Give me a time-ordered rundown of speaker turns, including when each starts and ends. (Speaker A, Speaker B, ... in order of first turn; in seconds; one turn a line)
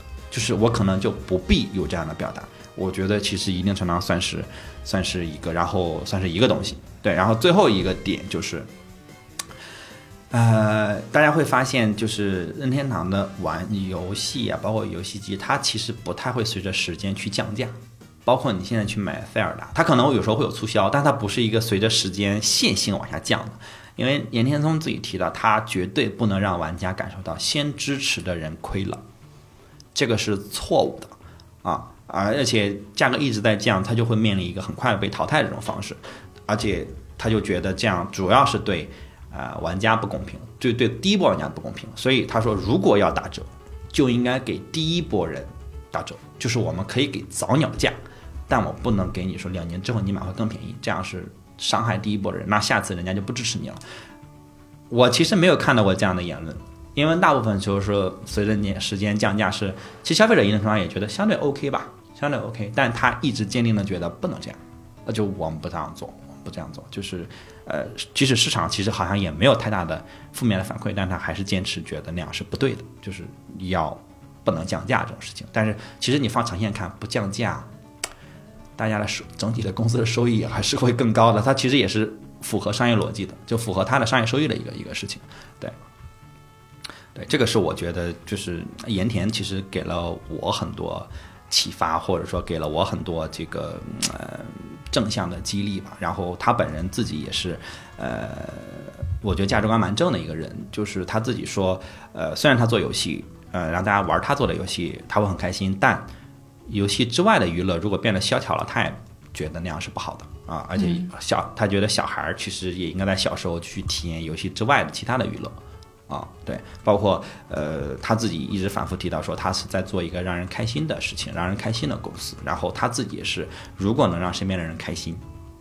Speaker A: 0.3-8.7
Speaker A: 10.3-29.0
Speaker A: 29.9-48.0
Speaker A: 48.5-53.8
Speaker A: 54.9-77.7
Speaker A: 78.8-85.8
Speaker A: 87.2-106.1
Speaker A: 106.7-125.2